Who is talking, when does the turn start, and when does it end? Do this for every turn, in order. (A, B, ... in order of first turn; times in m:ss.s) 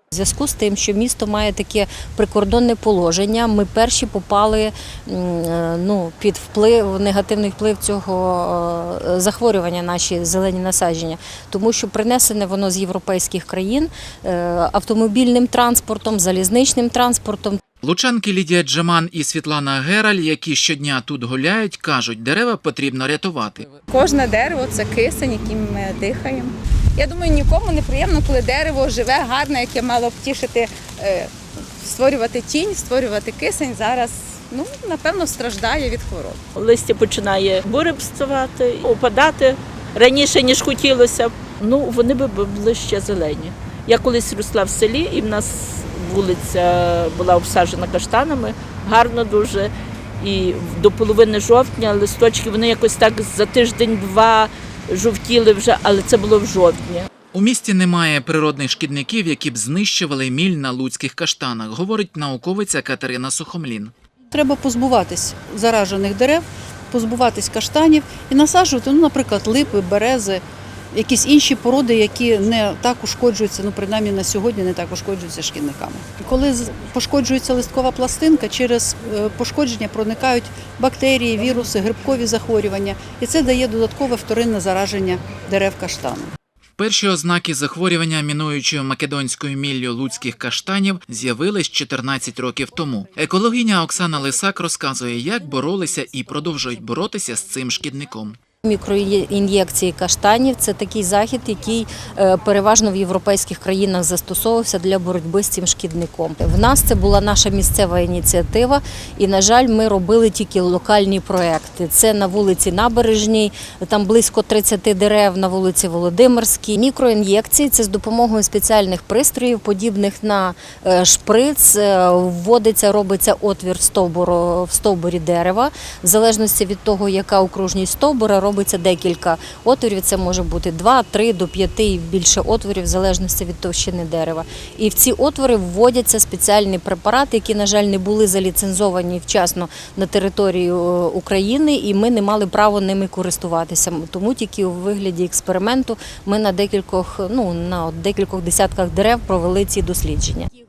0:00.1-0:17.6 A
0:17.8-0:23.7 B
0:23.9-0:36.4 C
0:36.6-0:57.1 D
0:57.3-1:03.9 B
1:04.3-1:26.3 E
1:26.8-1:38.4 B
1:38.6-2:30.5 A